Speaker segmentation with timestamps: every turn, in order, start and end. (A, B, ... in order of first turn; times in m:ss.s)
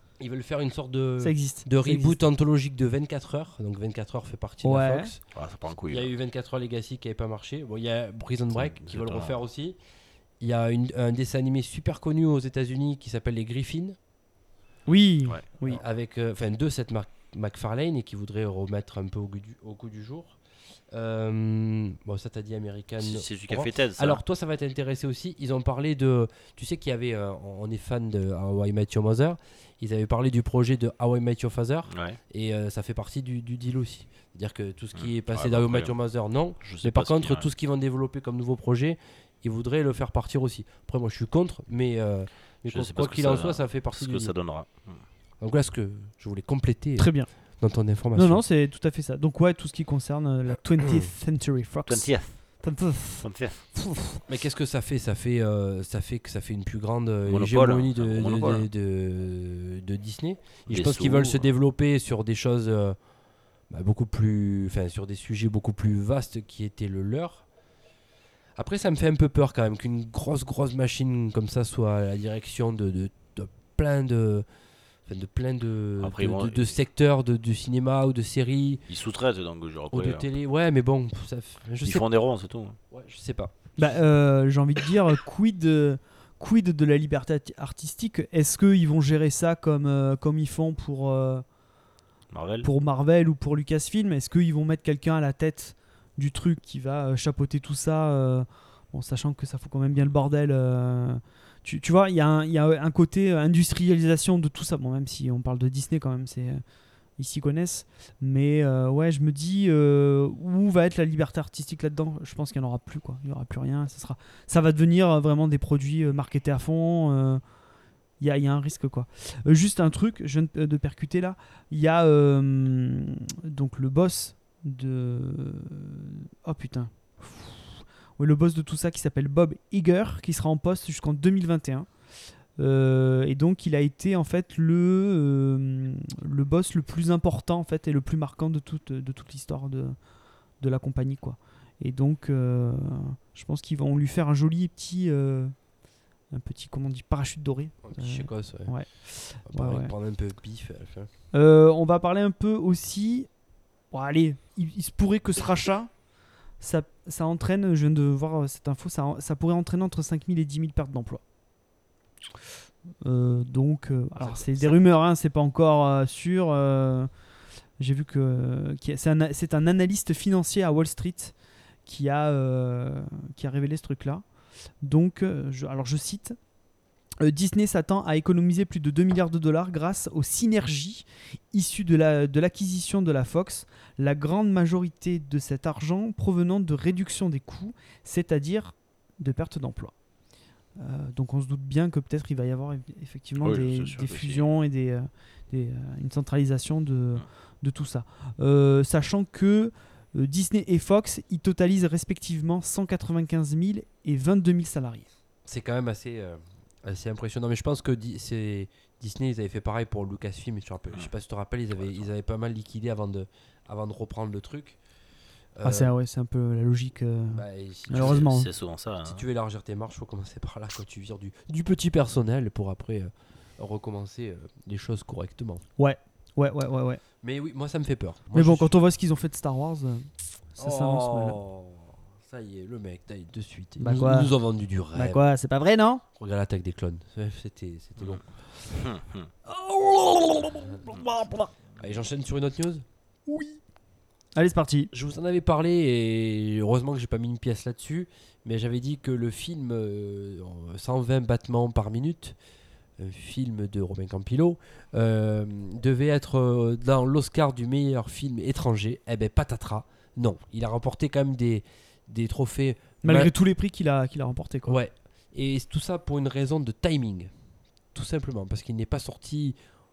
0:00.2-0:09.8 A
0:01.2-0:02.1 B
0:04.6-0:05.1 B
0:05.3-0:06.1 C
0:08.5-0:09.3 C
0:10.4-0:14.0 A
0:14.8-0:15.8 B
0:15.6-0:20.4 A
0:20.9-0:44.3 A
0:23.0-0:24.2 C
0:31.9-0:32.2 C
0:35.0-0:36.0 C
0:36.6-0:37.5 C
0:42.7-0:45.0 C
0:45.4-0:48.4 A
0:47.0-0:47.3 B
0:48.1-0:54.2 B
0:51.9-0:52.6 C
0:53.2-0:53.6 C
0:54.3-1:03.0 A
0:57.2-0:58.7 C
1:00.7-1:01.5 C
1:03.7-1:07.4 A
1:08.6-1:14.4 A
1:15.0-1:18.8 A
1:16.0-1:16.8 C
1:18.9-1:20.3 C
1:19.9-1:22.0 A
1:21.8-1:22.8 C
1:22.9-1:23.5 A
1:23.8-1:31.4 B
1:32.3-1:32.7 C
1:32.6-1:46.6 B
1:47.2-1:57.4 B
1:58.2-2:11.9 B
2:12.6-2:20.0 B
2:20.6-2:25.5 B
2:26.3-2:29.9 B
2:27.8-2:31.1 A
2:31.3-2:33.3 B
2:33.9-2:35.9 B
2:36.6-2:41.2 B
2:43.0-2:47.1 B
2:44.2-2:44.8 A
2:47.8-2:51.3 B
2:51.8-2:54.2 B
2:54.8-2:56.4 B
2:57.2-3:10.0 B
3:10.8-3:25.0 B
3:13.4-3:14.5 C
3:25.4-3:34.8 A
3:35.6-3:35.9 A
3:35.6-3:38.5 B
3:37.3-3:38.3 A
3:37.9-3:39.2 C
3:39.0-3:45.6 A
3:45.8-3:47.0 B
3:47.2-3:48.7 A
3:48.3-3:51.4 B
3:50.6-3:55.2 A
3:53.8-3:54.3 B
3:54.9-3:56.0 B
3:56.2-3:58.2 A
3:58.0-3:59.3 C
3:59.5-4:01.5 B
4:01.8-4:02.8 A
4:03.3-4:03.6 B
4:04.3-4:04.9 B
4:04.9-4:12.4 A
4:13.0-4:23.3 A
4:23.0-4:24.8 B
4:24.6-4:27.3 A
4:27.9-4:29.6 A